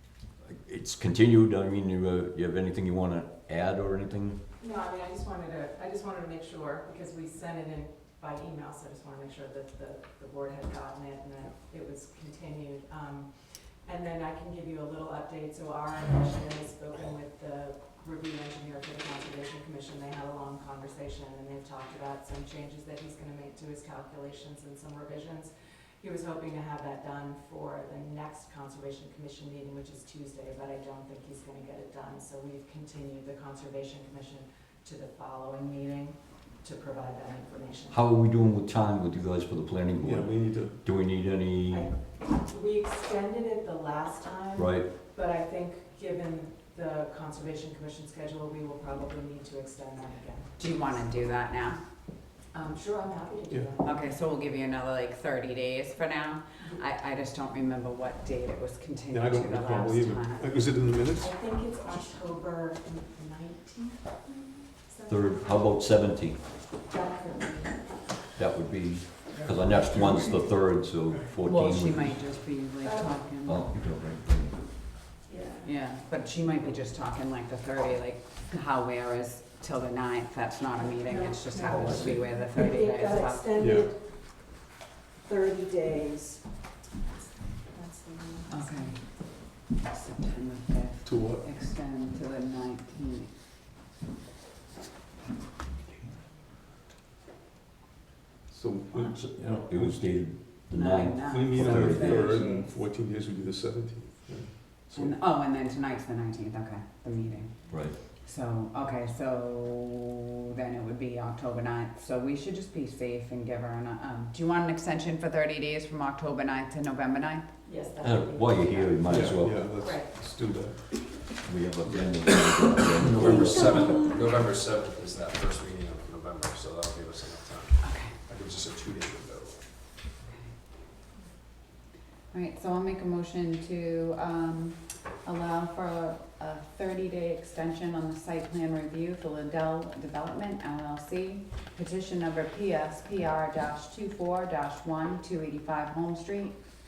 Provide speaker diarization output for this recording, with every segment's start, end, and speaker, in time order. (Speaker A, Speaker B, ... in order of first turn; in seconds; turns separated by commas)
Speaker A: 0.5-4.4, Speaker B: 4.6-13.3, Speaker B: 13.8-38.0, Speaker A: 37.9-40.3, Speaker C: 40.0-40.8, Speaker A: 40.8-41.9, Speaker B: 41.7-50.5, Speaker A: 44.5-44.9, Speaker D: 50.6-51.8, Speaker B: 52.5-54.0, Speaker D: 53.8-60.6, Speaker C: 59.1-61.4, Speaker B: 61.2-65.3, Speaker A: 65.1-66.4, Speaker B: 66.9-67.8, Speaker A: 68.3-72.2, Speaker D: 71.4-73.6, Speaker B: 72.8-73.1, Speaker A: 73.4-74.6, Speaker B: 75.3-75.7, Speaker D: 75.6-83.4, Speaker B: 81.0-84.0, Speaker C: 83.6-83.9, Speaker B: 85.2-86.4, Speaker B: 87.6-88.9, Speaker D: 88.5-89.0, Speaker D: 89.7-93.3, Speaker C: 91.0-91.5, Speaker C: 98.5-100.0, Speaker A: 99.0-102.3, Speaker D: 100.7-102.7, Speaker C: 101.2-105.1, Speaker D: 104.9-107.5, Speaker A: 107.7-108.0, Speaker D: 108.2-117.5, Speaker B: 117.6-119.0, Speaker A: 118.0-119.6, Speaker C: 119.0-121.1, Speaker B: 119.8-120.1, Speaker A: 121.4-124.0, Speaker E: 123.0-129.6, Speaker B: 123.4-124.0, Speaker D: 127.8-128.1, Speaker D: 132.3-146.6